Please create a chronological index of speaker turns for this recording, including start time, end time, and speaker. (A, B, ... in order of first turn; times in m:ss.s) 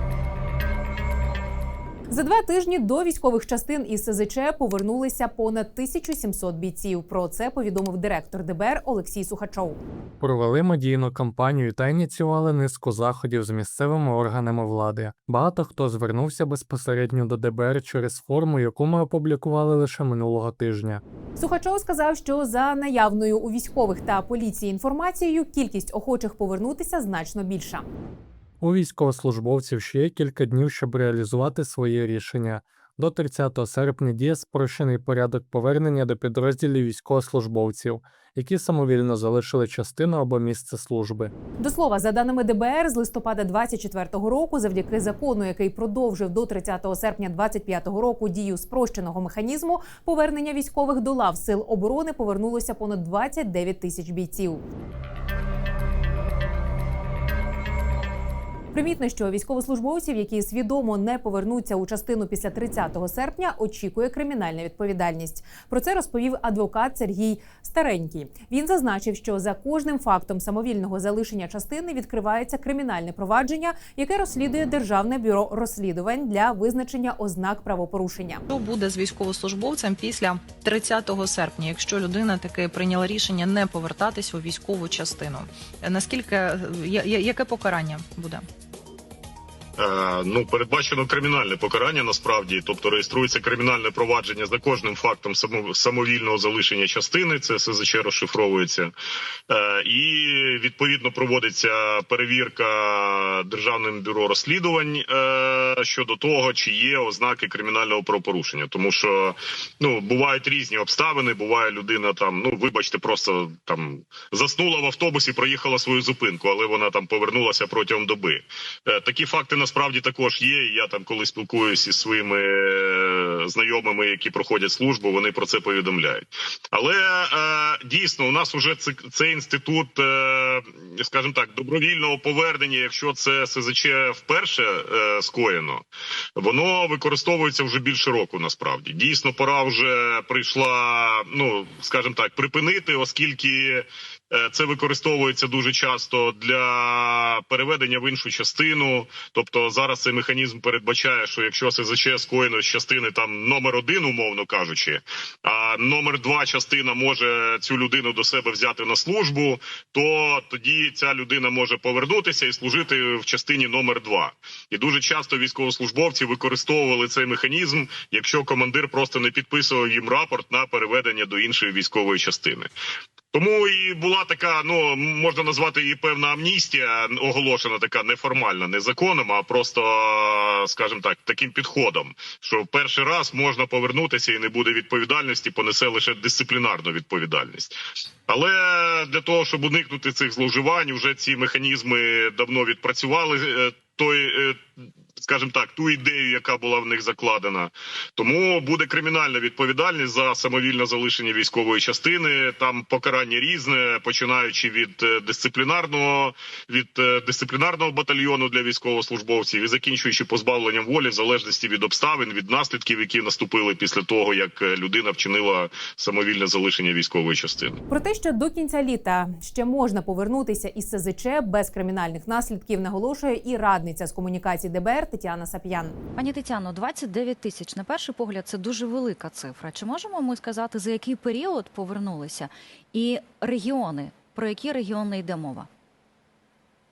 0:02.1-0:09.8 A
0:10.2-0:21.0 B
0:21.4-0:27.8 A
0:28.6-0:41.3 B
0:41.6-0:54.6 A
0:58.7-1:18.4 A
1:18.5-1:28.4 C
1:29.8-1:38.9 D
1:39.5-2:15.8 D
2:16.4-2:52.7 D
2:53.3-3:07.7 D
3:08.3-3:37.8 D
3:37.9-3:46.0 A
3:46.2-3:55.7 E